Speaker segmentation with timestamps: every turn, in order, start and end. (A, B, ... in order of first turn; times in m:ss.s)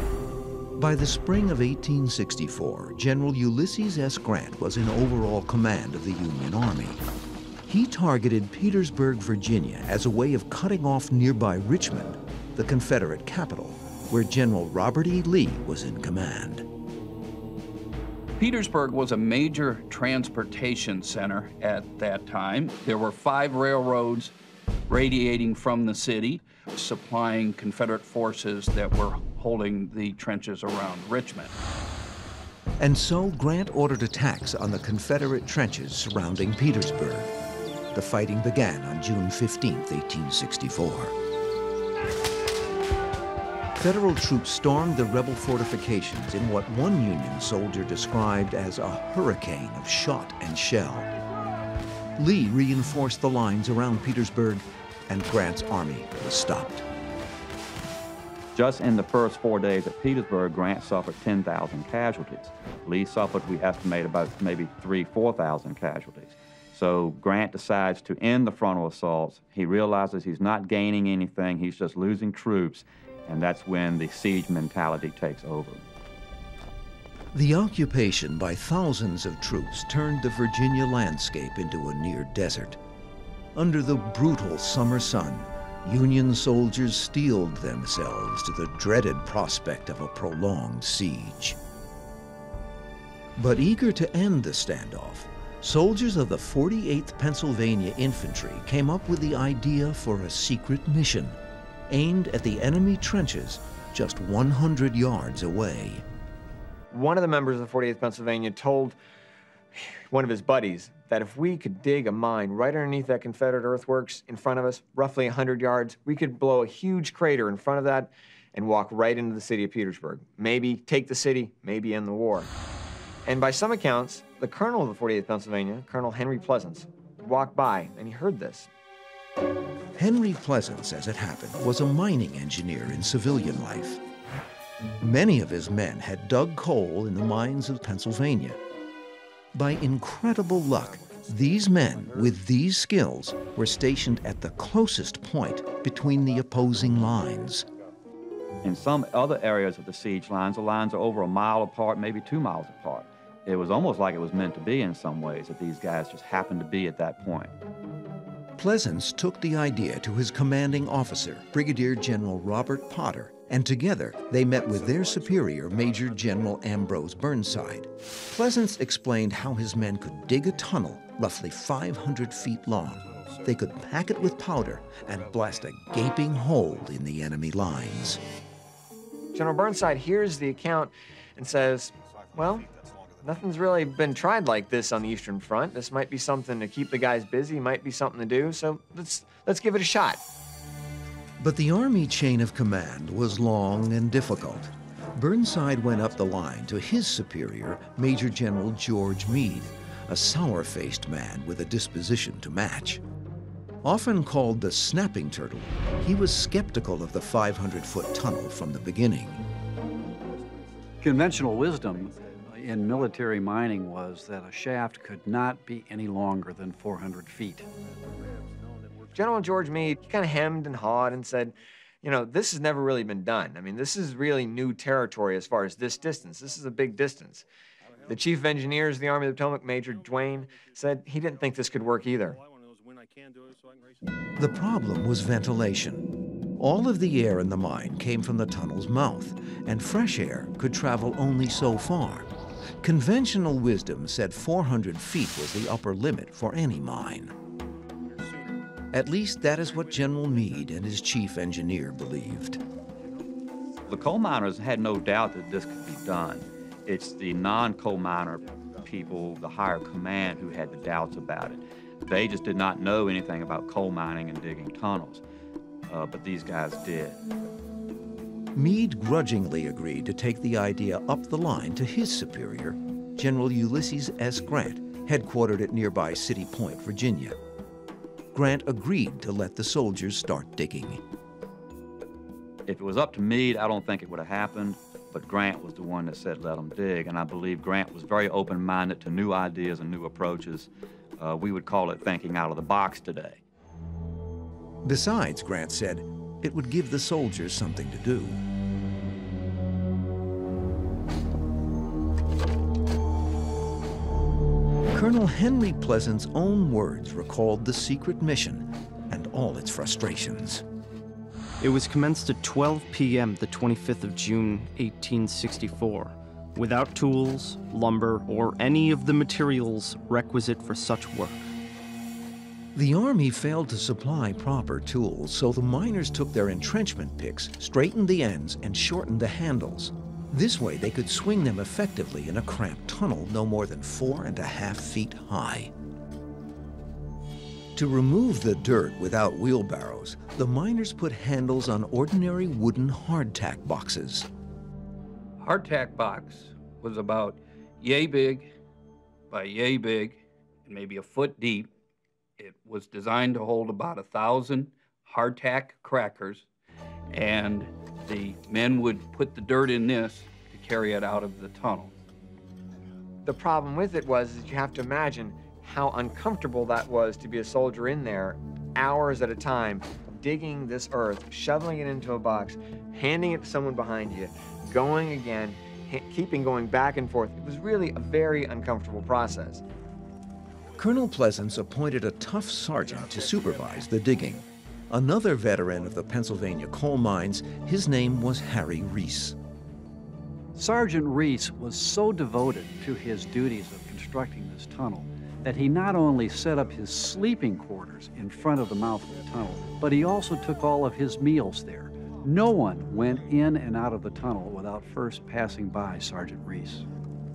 0:00.8-0:07.0 A
0:07.7-0:16.7 A
0:18.4-0:24.3 B
0:24.9-0:31.6 B
0:32.8-0:37.3 A
0:37.9-0:41.2 A
0:43.8-0:51.1 A
0:52.2-0:56.9 A
0:58.6-1:15.8 C
1:17.3-1:22.8 A
1:23.6-1:31.6 A
1:33.4-1:41.4 A
1:41.9-1:46.0 A
1:46.9-1:49.0 D
1:49.8-2:02.5 D
2:03.3-2:08.7 D
2:10.0-2:14.0 A
2:15.0-2:18.6 A
2:19.5-2:27.7 A
2:28.6-2:37.5 C
2:38.6-2:58.2 A
2:59.4-3:02.7 D
3:03.2-3:10.2 D
3:11.4-3:23.0 A
3:23.8-3:29.4 A
3:31.0-3:37.7 E
3:39.2-3:47.4 D
3:48.1-3:52.4 D
3:54.4-3:56.1 A
3:56.6-4:02.3 A
4:02.8-4:07.3 A
4:08.9-4:12.6 A
4:13.9-4:25.2 C
4:25.9-4:27.2 C
4:28.6-4:37.4 A
4:38.3-4:41.0 A
4:42.7-4:53.4 C
4:54.8-4:58.4 A
5:04.9-5:10.6 A
5:11.6-5:21.5 F
5:22.8-5:35.7 A
5:37.8-5:44.3 A
5:45.4-5:48.5 B
5:49.3-5:51.7 B
5:52.4-5:56.5 B
5:57.1-6:01.9 B
6:03.3-6:19.6 D
6:20.8-6:29.4 A
6:30.6-6:46.9 E